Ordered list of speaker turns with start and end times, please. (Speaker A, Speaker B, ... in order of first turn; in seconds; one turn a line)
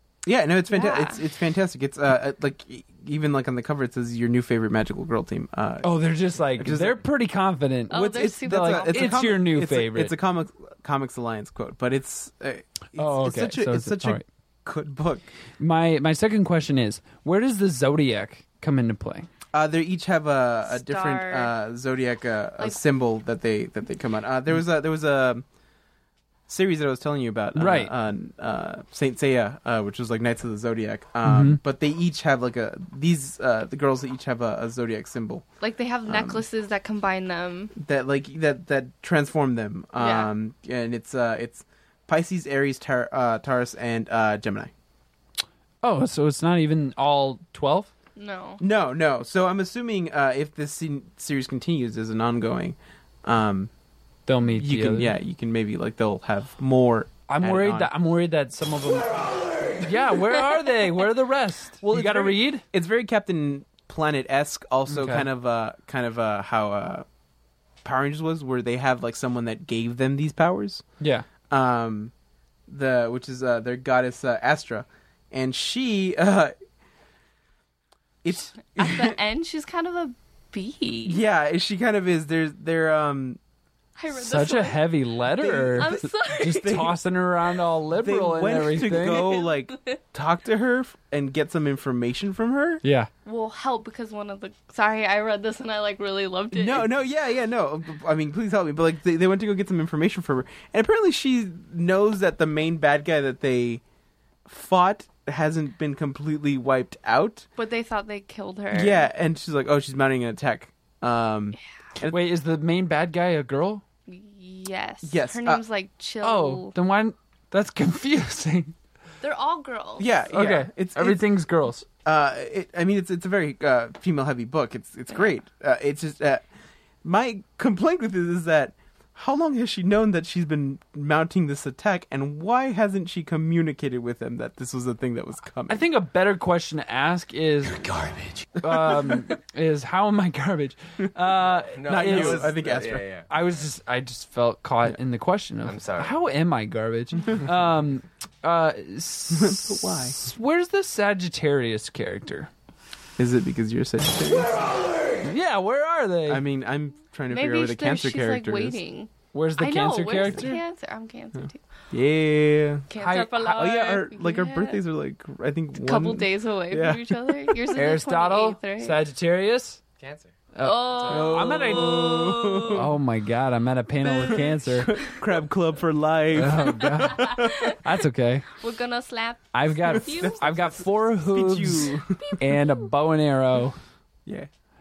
Speaker A: 0.2-6.0
Speaker B: 0.7-1.2
Speaker C: 5.8-10.1
Speaker A: 6.5-7.0
Speaker B: 7.9-9.4
Speaker A: 7.9-15.3
Speaker C: 12.9-14.2
Speaker C: 15.6-19.3
Speaker A: 19.5-25.4
Speaker B: 20.7-21.5
Speaker A: 26.5-35.4
Speaker C: 27.5-27.9
Speaker C: 31.2-31.6
Speaker B: 35.6-37.7
Speaker A: 36.1-36.4
Speaker A: 37.8-44.7
Speaker B: 40.0-40.3
Speaker C: 45.8-47.9
Speaker B: 48.1-48.6
Speaker A: 48.6-53.7
Speaker C: 54.3-55.2
Speaker A: 54.5-57.9
Speaker C: 57.3-59.1
Speaker C: 59.8-62.6
Speaker A: 61.9-67.0
Speaker C: 64.9-65.3
Speaker A: 67.8-70.8
Speaker C: 71.0-71.3
Speaker A: 71.5-72.1
Speaker A: 72.7-76.5
Speaker A: 78.2-79.2
Speaker B: 78.8-81.2
Speaker A: 81.0-83.4
Speaker B: 84.0-84.9
Speaker C: 84.1-89.3
Speaker A: 85.3-87.0
Speaker B: 85.5-86.9
Speaker A: 87.9-92.8
Speaker B: 89.1-90.0
Speaker C: 92.8-93.1
Speaker B: 93.2-96.9
Speaker A: 96.5-103.8
Speaker A: 104.5-107.5
Speaker B: 107.6-109.1
Speaker A: 108.7-112.2
Speaker C: 112.0-113.8
Speaker B: 114.1-116.7
Speaker A: 115.0-115.6
Speaker C: 116.2-118.7
Speaker B: 119.2-120.2
Speaker A: 120.0-121.2
Speaker C: 120.3-121.8
Speaker A: 122.0-126.4
Speaker A: 127.0-135.8
Speaker C: 135.7-142.6
Speaker D: 141.7-143.3
Speaker A: 141.8-143.1
Speaker C: 143.3-152.5
Speaker D: 145.6-146.2
Speaker A: 149.3-150.2
Speaker A: 153.2-154.5
Speaker C: 155.2-156.4
Speaker A: 156.3-158.8
Speaker B: 157.3-161.6
Speaker C: 159.3-160.6
Speaker A: 161.9-162.9
Speaker B: 162.9-164.8
Speaker C: 163.0-163.8
Speaker A: 163.5-167.6
Speaker B: 165.8-169.0
Speaker C: 167.7-169.8
Speaker D: 170.0-170.3
Speaker C: 170.5-172.0
Speaker B: 170.6-172.8
Speaker A: 171.1-172.9
Speaker C: 172.7-175.0
Speaker A: 174.0-177.7
Speaker C: 176.3-178.5
Speaker B: 177.1-177.8
Speaker B: 178.6-180.5
Speaker C: 179.5-183.8
Speaker A: 180.1-182.3